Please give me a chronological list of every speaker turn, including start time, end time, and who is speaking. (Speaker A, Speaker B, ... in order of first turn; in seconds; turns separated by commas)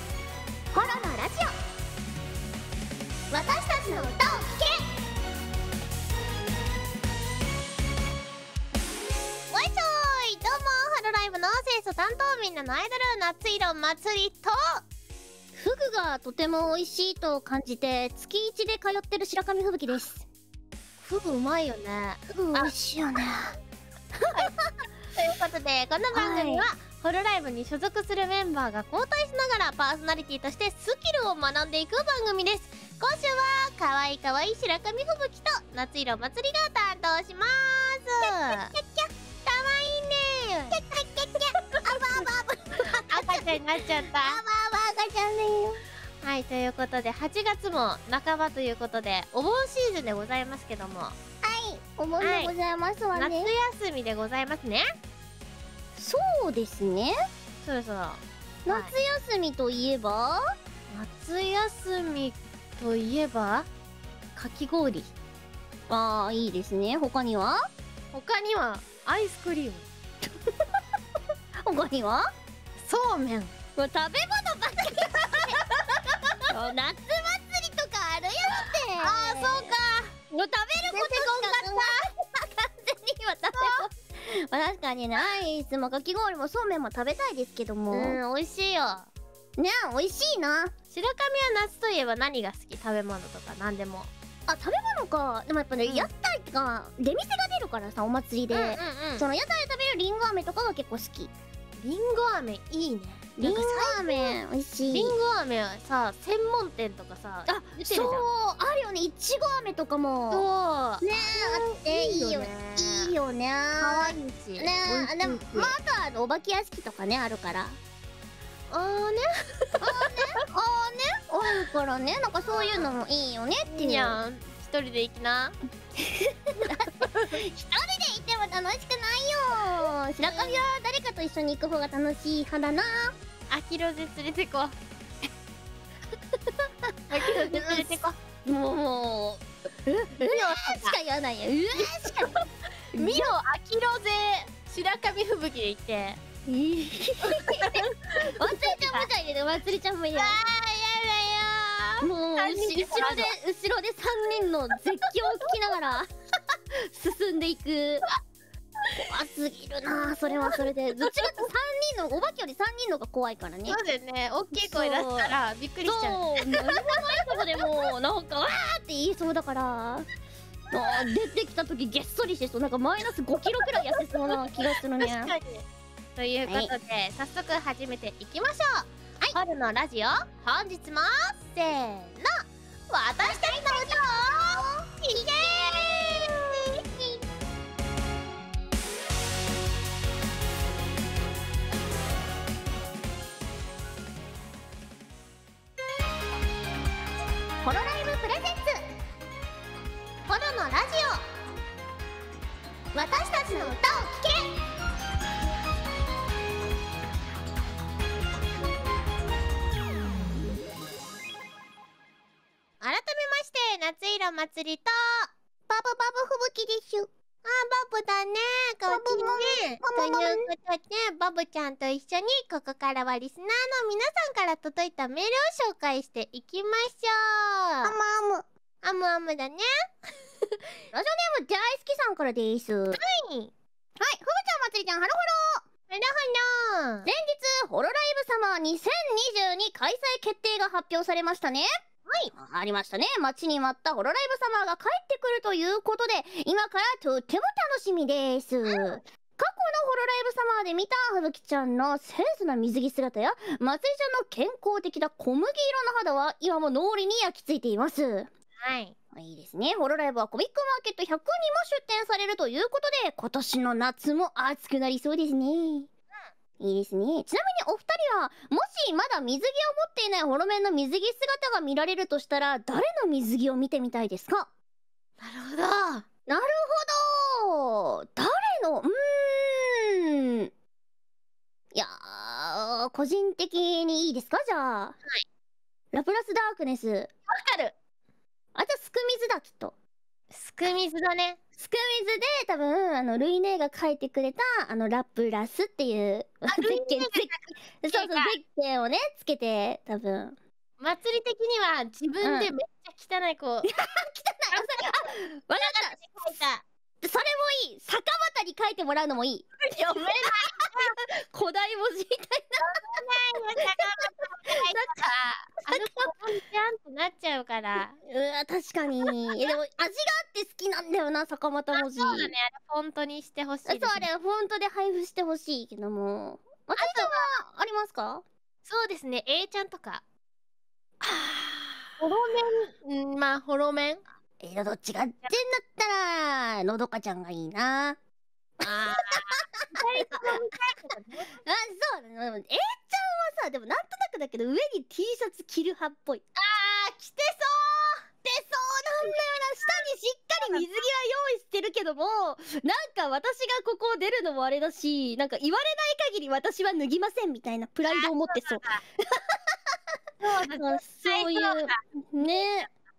Speaker A: 0.7-1.5, Speaker A: 3.3-4.8, Speaker B: 9.5-14.8, Speaker A: 15.5-20.3, Speaker B: 21.0-22.7, Speaker A: 22.3-23.6, Speaker B: 25.1-38.7, Speaker A: 26.1-26.7, Speaker A: 38.2-39.5, Speaker B: 39.6-40.8, Speaker A: 40.7-43.5, Speaker B: 41.8-42.3, Speaker B: 42.8-44.4, Speaker A: 44.1-45.8, Speaker B: 46.2-51.2, Speaker A: 51.4-53.5, Speaker B: 52.2-52.5, Speaker B: 53.1-54.9, Speaker A: 56.0-57.2, Speaker B: 57.6-58.9, Speaker A: 58.7-60.4, Speaker B: 60.9-63.7, Speaker B: 64.4-65.1, Speaker A: 65.9-67.6, Speaker B: 68.1-69.9, Speaker A: 71.6-72.3, Speaker B: 72.8-73.5, Speaker A: 73.8-75.6, Speaker B: 75.3-76.4, Speaker A: 76.5-79.7, Speaker B: 79.0-80.1, Speaker A: 80.3-88.2, Speaker B: 80.8-82.1, Speaker B: 83.5-83.9, Speaker B: 87.9-89.1, Speaker A: 89.6-90.7, Speaker B: 90.9-94.1, Speaker A: 94.5-101.3, Speaker B: 98.5-99.2, Speaker B: 101.8-104.4, Speaker A: 103.4-105.1, Speaker B: 104.9-108.2, Speaker A: 107.5-110.5, Speaker B: 110.3-113.1, Speaker A: 111.0-117.8, Speaker B: 113.8-115.7, Speaker B: 118.7-120.3, Speaker A: 119.8-124.2, Speaker B: 122.5-122.8, Speaker B: 123.7-125.5, Speaker A: 126.0-133.1, Speaker B: 126.6-127.3, Speaker B: 130.2-130.6, Speaker B: 133.5-134.8, Speaker B: 137.1-138.2, Speaker A: 137.1-137.9, Speaker A: 138.4-142.3, Speaker B: 140.2-141.0, Speaker B: 141.8-142.4, Speaker A: 142.9-143.3, Speaker B: 142.9-146.2, Speaker A: 146.4-147.8, Speaker B: 147.2-149.1, Speaker A: 148.3-150.3, Speaker B: 150.1-153.3, Speaker A: 152.0-156.1, Speaker A: 156.7-158.0, Speaker A: 159.0-163.8, Speaker B: 160.2-161.4, Speaker B: 163.7-167.6, Speaker A: 164.5-165.3, Speaker A: 165.8-170.1, Speaker A: 170.7-175.3, Speaker B: 173.6-175.6, Speaker B: 176.2-184.0, Speaker A: 176.4-176.7, Speaker A: 183.2-186.2, Speaker B: 185.0-186.7, Speaker A: 197.6-198.8, Speaker B: 200.3-201.2, Speaker A: 202.9-204.5, Speaker B: 212.8-215.3, Speaker A: 215.7-217.1, Speaker B: 217.4-227.9, Speaker A: 218.9-220.5, Speaker A: 227.8-228.4, Speaker B: 228.8-229.8, Speaker A: 230.9-233.0, Speaker B: 232.9-233.5, Speaker A: 234.0-235.6, Speaker B: 235.9-237.1, Speaker A: 237.1-241.7, Speaker A: 242.3-258.3, Speaker B: 248.7-248.9, Speaker B: 258.6-258.9, Speaker A: 259.1-265.9, Speaker A: 266.6-274.5, Speaker B: 275.2-276.1, Speaker A: 276.3-280.5, Speaker A: 281.7-285.0, Speaker A: 285.9-287.1, Speaker B: 287.3-287.8, Speaker A: 288.6-289.8, Speaker B: 290.3-291.4, Speaker A: 291.6-300.4, Speaker B: 296.5-298.4, Speaker B: 300.8-303.7, Speaker A: 302.2-302.5, Speaker A: 303.7-306.0, Speaker B: 304.5-304.9, Speaker B: 305.6-306.6, Speaker A: 307.0-312.8, Speaker B: 310.0-310.9, Speaker B: 312.6-318.0, Speaker A: 313.6-316.1, Speaker A: 318.1-322.3, Speaker B: 321.8-324.1, Speaker A: 323.7-328.2, Speaker B: 326.8-327.3, Speaker B: 328.6-330.0, Speaker A: 331.0-331.8, Speaker B: 332.0-334.0, Speaker A: 334.4-338.0, Speaker A: 338.6-340.1, Speaker B: 338.7-341.3, Speaker A: 341.4-346.3, Speaker B: 346.4-348.0, Speaker A: 348.2-359.5, Speaker B: 357.9-358.8, Speaker B: 360.2-362.5, Speaker A: 360.6-362.7